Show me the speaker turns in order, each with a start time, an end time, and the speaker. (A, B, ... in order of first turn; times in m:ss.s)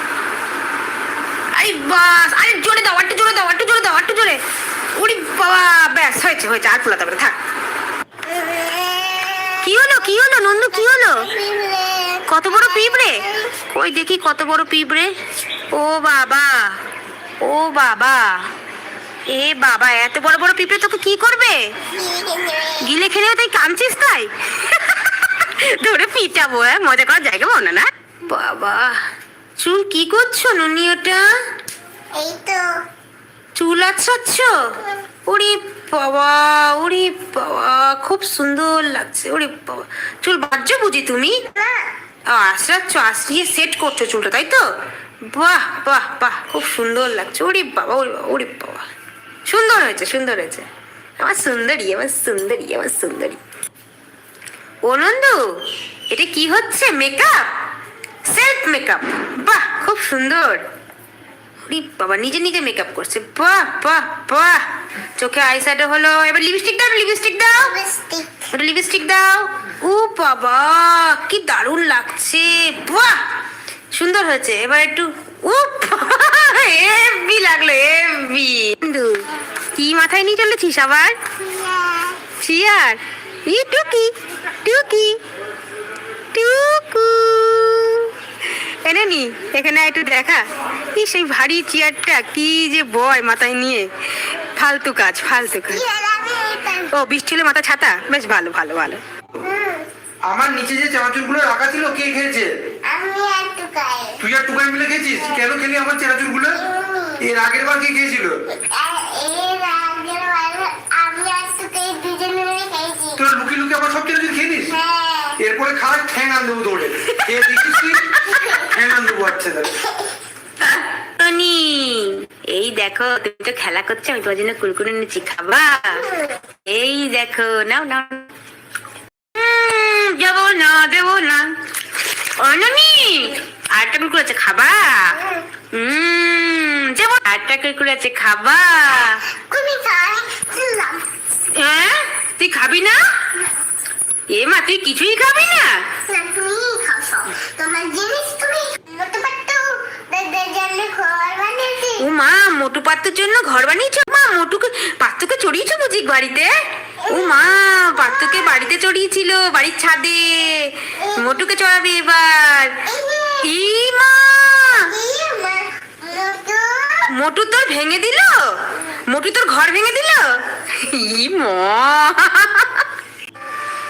0:01.5-0:04.4 A
0:04.9-0:07.4 A
0:08.3-0:13.5 B
0:09.6-0:11.3 A
0:12.3-0:15.1 A
0:15.7-0:16.8 A
0:17.4-0:18.5 A
0:19.3-0:21.7 A
0:21.9-0:22.9 B
0:22.8-0:29.0 A
0:29.6-0:31.4 A
0:32.1-0:32.7 B
0:33.6-0:41.4 A
0:41.5-0:41.9 B
0:42.3-0:44.7 A
0:45.3-0:48.8 A
0:49.4-0:50.6 A
0:51.2-0:53.4 A
0:54.8-0:57.5 A
0:58.2-1:00.6 A
1:01.6-1:04.6 A
1:05.2-1:07.7 A
1:07.6-1:08.3 B
1:08.5-1:13.2 A
1:13.9-1:21.2 A
1:21.4-1:22.2 B
1:22.4-1:24.1 A
1:24.6-1:25.2 A
1:26.3-1:28.1 A
1:28.8-1:30.4 A
1:31.0-1:33.9 A
1:34.6-1:35.8 A
1:35.7-1:36.9 B
1:36.9-1:39.0 A
1:39.4-1:39.9 B
1:40.3-1:42.5 C
1:42.8-1:44.2 B
1:44.2-1:46.6 C
1:46.5-1:47.2 B
1:47.2-1:48.4 C
1:48.7-1:53.2 B
1:53.2-1:54.8 C
1:54.7-1:55.4 B
1:55.4-1:58.1 C
1:57.1-1:58.4 A
1:58.2-1:58.8 B
1:58.7-1:59.8 C
1:59.8-2:00.1 B
2:00.6-2:06.1 A
2:06.1-2:06.3 B
2:06.6-2:08.3 A
2:09.3-2:11.5 A
2:12.4-2:15.2 A
2:15.2-2:15.4 B
2:15.7-2:19.2 A
2:19.5-2:21.0 B
2:21.5-2:23.0 A
2:24.3-2:25.9 A
2:26.0-2:32.1 B
2:32.0-2:36.5 A
2:37.0-2:38.6 B
2:37.1-2:42.8 A
2:41.0-2:41.4 B
2:42.8-2:43.5 B
2:43.4-2:44.9 A
2:44.8-2:47.1 B
2:47.1-2:52.8 A